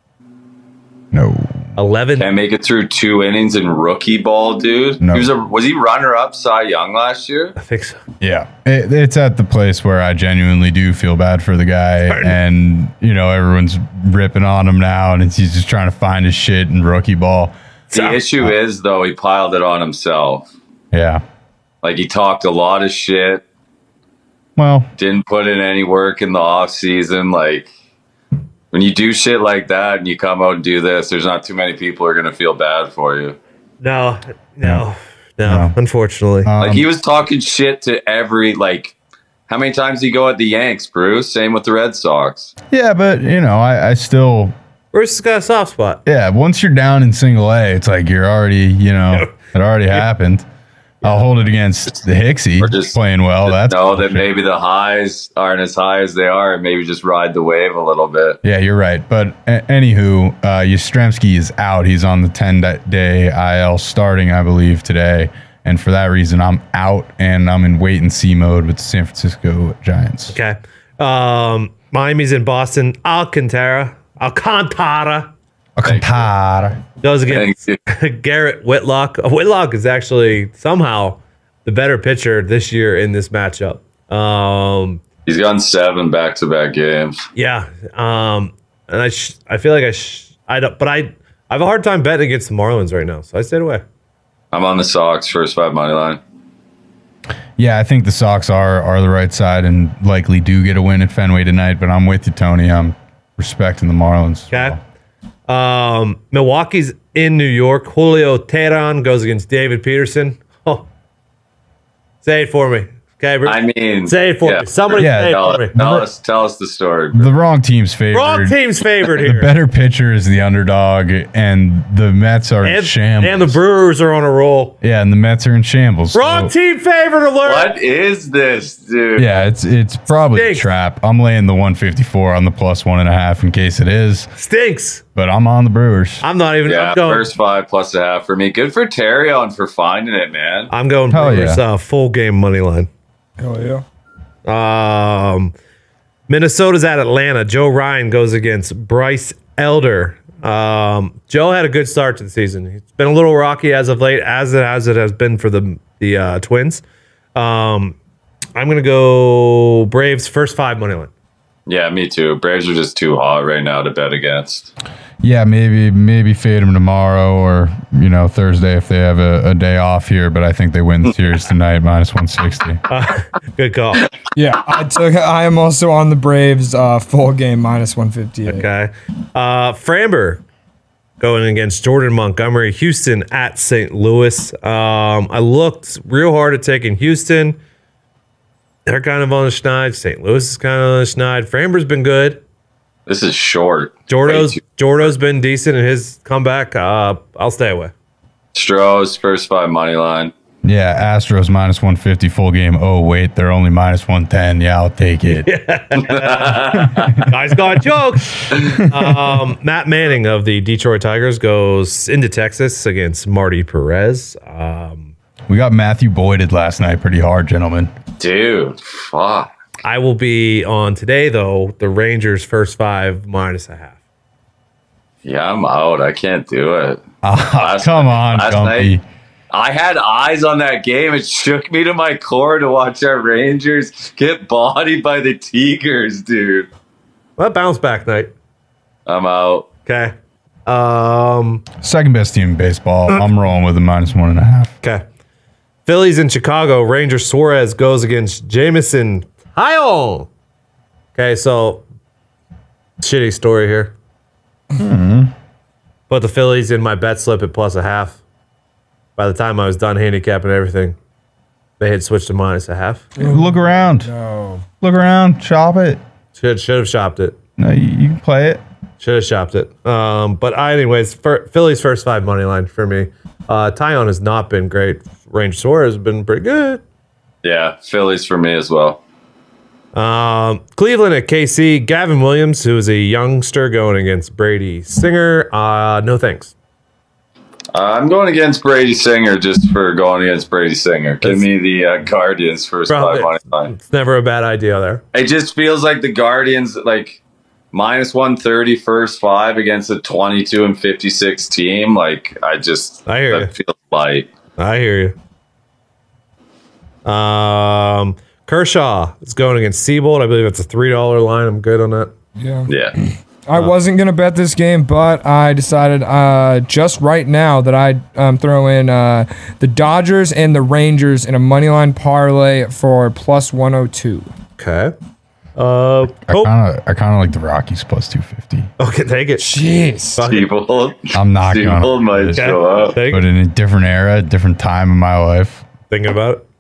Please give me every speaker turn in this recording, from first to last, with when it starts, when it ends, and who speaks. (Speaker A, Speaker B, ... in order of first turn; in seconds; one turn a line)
Speaker A: 1.1-1.7
Speaker B: 1.8-2.3
Speaker C: 2.2-7.5
Speaker A: 5.0-5.3
Speaker B: 7.6-8.0
Speaker A: 8.2-17.5
Speaker B: 12.1-12.3
Speaker B: 17.9-18.2
Speaker C: 17.9-20.5
Speaker A: 20.9-21.2
Speaker C: 21.8-23.4
Speaker A: 24.6-24.9
Speaker C: 25.0-27.7
Speaker C: 28.7-33.4
Speaker B: 33.8-36.5
Speaker A: 35.4-35.7
Speaker A: 36.4-36.9
Speaker C: 36.6-38.9
Speaker C: 39.5-42.5
Speaker A: 42.7-44.5
Speaker B: 44.9-46.0
Speaker A: 46.0-50.5
Speaker A: 51.0-54.2
Speaker C: 52.6-58.4
Speaker A: 58.4-70.3
Speaker B: 70.3-75.3
Speaker A: 75.8-76.8
Speaker C: 75.8-76.3
Speaker B: 77.0-85.0
Speaker C: 77.3-77.8
Speaker C: 85.2-87.2
Speaker B: 87.3-93.8
Speaker C: 94.5-96.2
Speaker A: 97.6-104.8
Speaker B: 104.5-104.8
Speaker B: 105.5-110.9
Speaker B: 112.2-115.7
Speaker C: 113.4-117.3
Speaker A: 115.0-116.1
Speaker A: 117.1-118.5
Speaker B: 118.1-119.5
Speaker A: 119.2-123.5
Speaker B: 122.6-124.8
Speaker A: 124.8-126.5
Speaker B: 126.1-127.7
Speaker C: 127.4-129.3
Speaker A: 129.2-134.3
Speaker B: 130.3-130.7
Speaker B: 134.3-135.0
Speaker A: 135.1-136.2
Speaker B: 136.2-137.3
Speaker C: 136.6-140.7
Speaker B: 140.7-142.9
Speaker A: 141.1-141.6
Speaker D: 143.4-143.8
Speaker B: 144.5-145.5
Speaker B: 146.3-156.8
Speaker B: 157.3-158.0
Speaker B: 158.5-161.1
Speaker C: 161.7-164.7
Speaker A: 165.2-172.8
Speaker B: 172.9-174.1
Speaker D: 174.4-178.7
Speaker B: 178.5-180.4
Speaker B: 181.2-187.6
Speaker B: 188.9-192.4
Speaker C: 193.1-194.6
Speaker B: 194.1-197.9
Speaker C: 198.5-200.3
Speaker A: 200.6-205.5
Speaker B: 205.4-206.6
Speaker C: 206.1-207.1
Speaker A: 206.7-207.3
Speaker B: 207.3-215.1
Speaker A: 215.5-217.9
Speaker C: 218.2-219.5
Speaker B: 219.8-224.0
Speaker C: 225.2-227.0
Speaker A: 227.2-229.0
Speaker C: 227.6-228.9
Speaker C: 229.5-236.7
Speaker B: 237.4-238.3
Speaker C: 239.1-239.7
Speaker B: 239.9-240.1
Speaker B: 240.7-241.6
Speaker A: 241.8-244.7
Speaker B: 245.8-250.3
Speaker B: 251.1-251.8
Speaker B: 253.0-253.9
Speaker A: 254.8-255.3
Speaker B: 256.1-258.2
Speaker B: 259.1-261.0
Speaker B: 261.8-263.1
Speaker D: 263.1-264.6
Speaker A: 263.2-264.1
Speaker A: 264.8-266.0
Speaker B: 266.4-267.4
Speaker A: 267.6-268.6
Speaker B: 269.0-276.8
Speaker C: 277.4-279.0
Speaker B: 279.9-286.5
Speaker C: 287.7-293.7
Speaker B: 292.9-295.0
Speaker C: 295.1-297.2
Speaker C: 297.7-304.3
Speaker B: 303.1-303.5
Speaker B: 304.6-305.1
Speaker B: 307.0-312.1
Speaker D: 312.4-324.3
Speaker C: 312.7-313.0
Speaker B: 324.6-324.9
Speaker B: 325.6-326.5
Speaker A: 326.2-328.7
Speaker B: 328.8-329.4
Speaker D: 329.4-330.2
Speaker B: 330.1-330.5
Speaker C: 330.2-333.0
Speaker A: 331.1-335.6
Speaker B: 332.4-333.2
Speaker B: 335.9-336.4